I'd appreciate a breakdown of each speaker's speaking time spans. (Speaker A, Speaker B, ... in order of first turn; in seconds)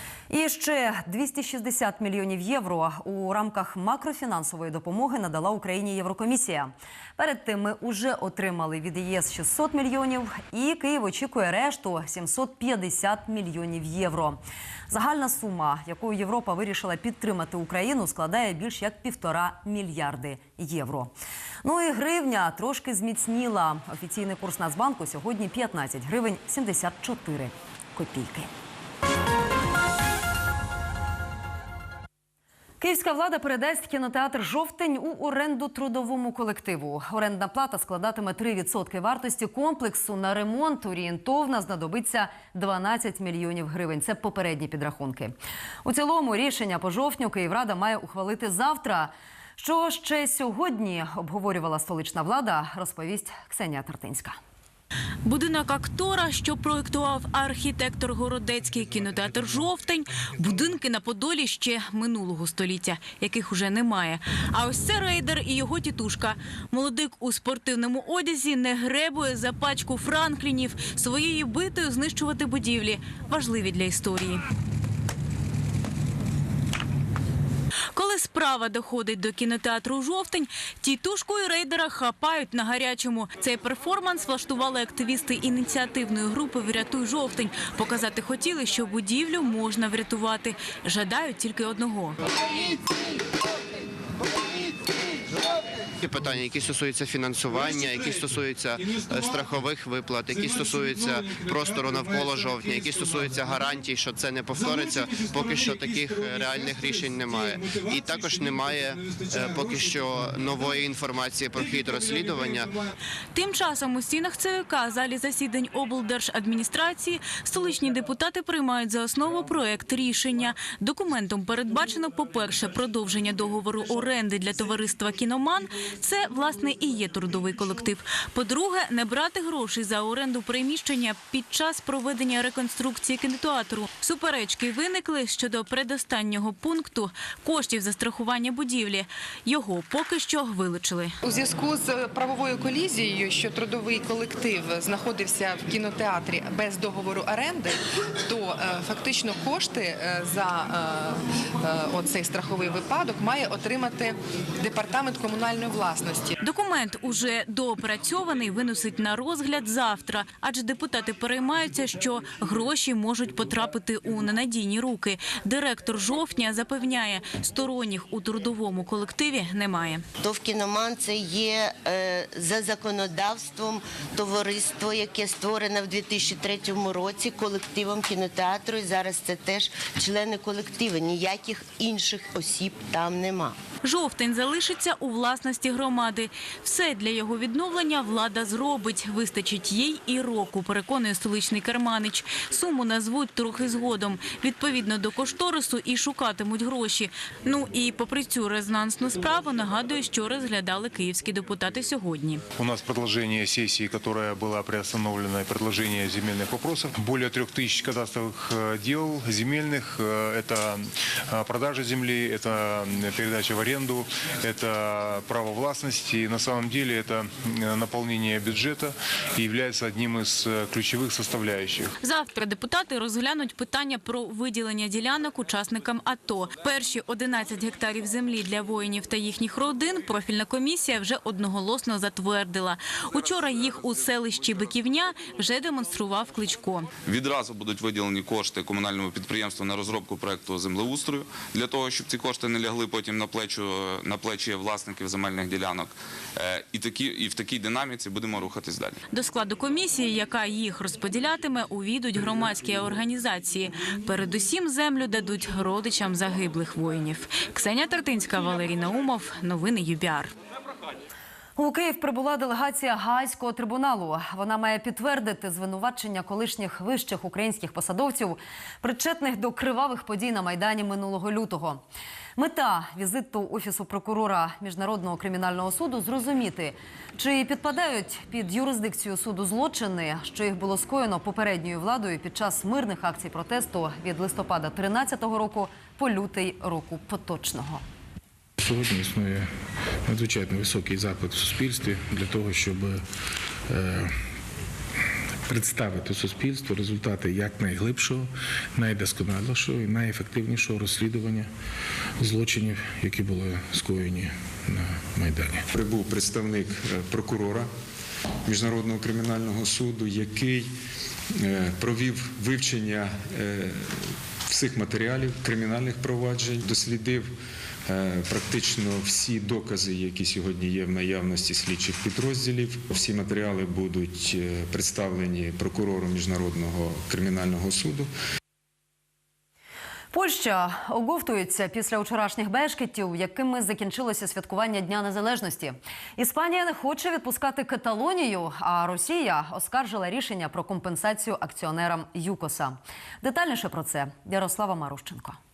Speaker A: 0.3-21.1, 21.6-28.5, 32.8-54.4, 261.6-271.8, 272.4-287.8, 330.1-345.4
Speaker B: 55.2-74.4, 77.9-92.2, 113.3-141.1, 156.4-170.0, 183.8-202.4, 222.0-236.9, 249.1-260.3
Speaker C: 96.0-112.8
Speaker D: 141.2-156.3
Speaker E: 170.2-183.5
Speaker F: 202.6-221.9
Speaker G: 237.0-249.0
Speaker H: 288.6-289.5, 290.0-293.1, 293.7-294.2, 295.5-301.5, 302.2-305.7
Speaker I: 305.7-307.7, 308.4-310.7, 311.3-317.3, 317.9-328.1